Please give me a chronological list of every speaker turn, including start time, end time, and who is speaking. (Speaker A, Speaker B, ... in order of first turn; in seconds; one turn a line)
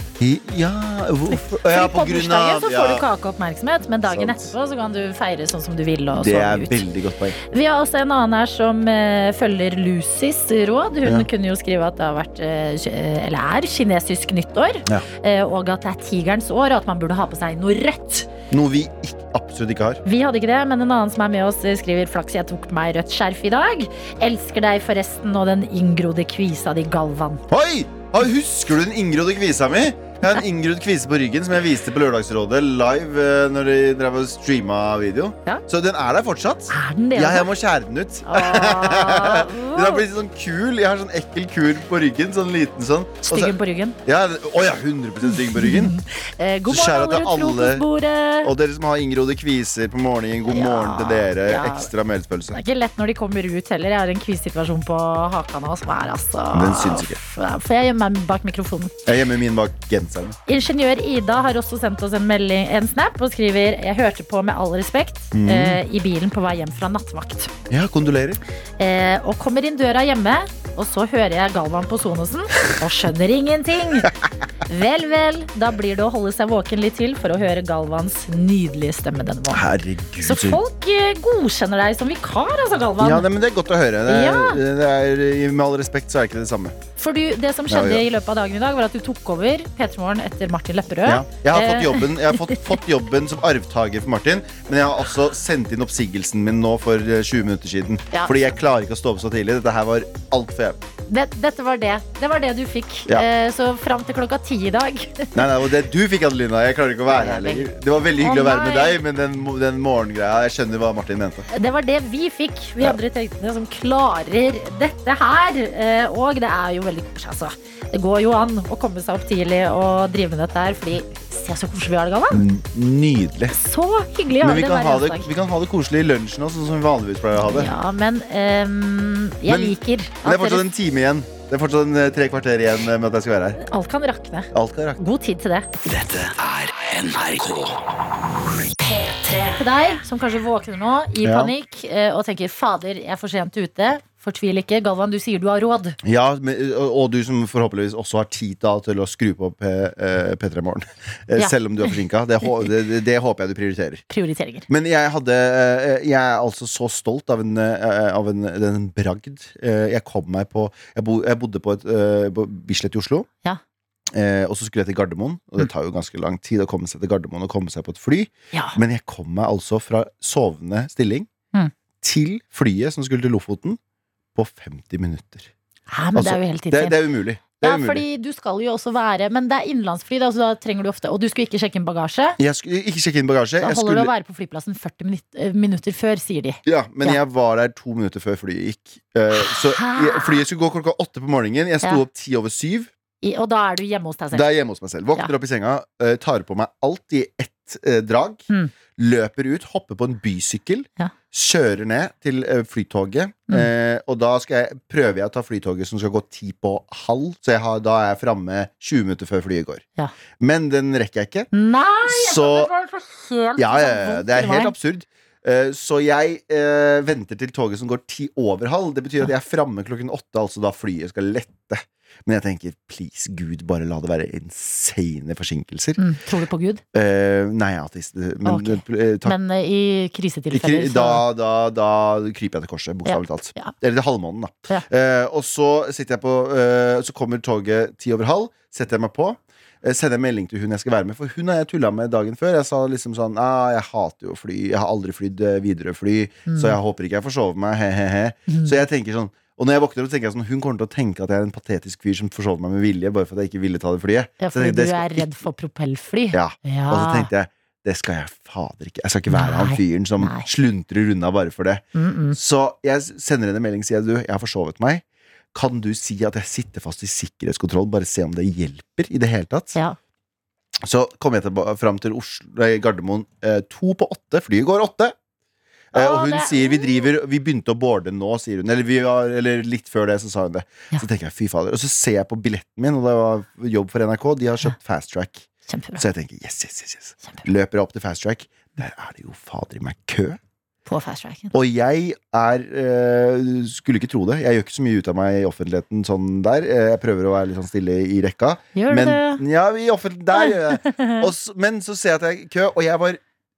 Speaker A: 0.2-3.0
Speaker B: 1.3-6.8
Speaker A: 4.0-4.5
Speaker A: 6.2-7.4
Speaker B: 7.4-18.3
Speaker A: 18.5-20.0
Speaker B: 20.1-27.4
Speaker A: 27.5-45.9
Speaker B: 36.7-37.5
Speaker B: 38.2-40.0
Speaker B: 43.2-44.0
Speaker B: 45.3-48.5
Speaker A: 46.7-47.9
Speaker A: 48.4-52.6
Speaker B: 50.5-51.9
Speaker B: 52.5-58.9
Speaker A: 56.5-57.2
Speaker A: 59.0-60.4
Speaker B: 60.5-67.5
Speaker A: 65.3-65.8
Speaker A: 67.7-68.4
Speaker B: 68.8-74.1
Speaker B: 74.7-79.7
Speaker A: 79.5-80.6
Speaker B: 80.2-83.3
Speaker A: 83.0-86.8
Speaker B: 84.1-84.6
Speaker B: 87.0-92.7
Speaker A: 87.7-88.0
Speaker A: 91.0-100.8
Speaker B: 101.1-105.5
Speaker A: 105.3-111.5
Speaker B: 107.1-109.0
Speaker B: 111.5-122.4
Speaker A: 122.3-123.5
Speaker B: 123.5-125.3
Speaker A: 124.4-127.7
Speaker B: 127.4-130.6
Speaker A: 129.5-133.6
Speaker B: 133.6-135.7
Speaker A: 134.5-135.0
Speaker C: 135.8-137.8
Speaker B: 138.8-146.0
Speaker A: 141.2-141.5
Speaker A: 146.0-154.0
Speaker B: 154.1-154.7
Speaker A: 154.7-163.3
Speaker A: 164.1-171.3
Speaker B: 168.5-168.8
Speaker A: 172.0-173.8
Speaker A: 174.4-175.5
Speaker B: 175.9-177.0
Speaker A: 176.1-178.0
Speaker B: 177.6-182.4
Speaker A: 182.4-184.1
Speaker B: 183.6-187.2
Speaker A: 186.6-192.9
Speaker B: 189.3-190.4
Speaker B: 193.2-194.5
Speaker A: 194.3-209.8
Speaker A: 210.4-211.5
Speaker B: 211.5-214.7
Speaker A: 212.0-212.7
Speaker A: 213.6-226.0
Speaker B: 226.0-226.8
Speaker A: 226.9-229.4
Speaker B: 228.4-231.2
Speaker A: 230.5-255.3
Speaker B: 233.1-233.7
Speaker B: 246.5-246.8
Speaker B: 248.5-248.8
Speaker B: 254.4-257.3
Speaker A: 256.3-269.8
Speaker B: 259.3-260.5
Speaker B: 261.9-262.4
Speaker A: 270.8-275.1
Speaker A: 275.9-290.4
Speaker B: 275.9-277.1
Speaker B: 285.7-286.0
Speaker B: 290.9-291.6
Speaker A: 291.5-303.2
Speaker B: 298.8-299.4
Speaker B: 300.3-301.3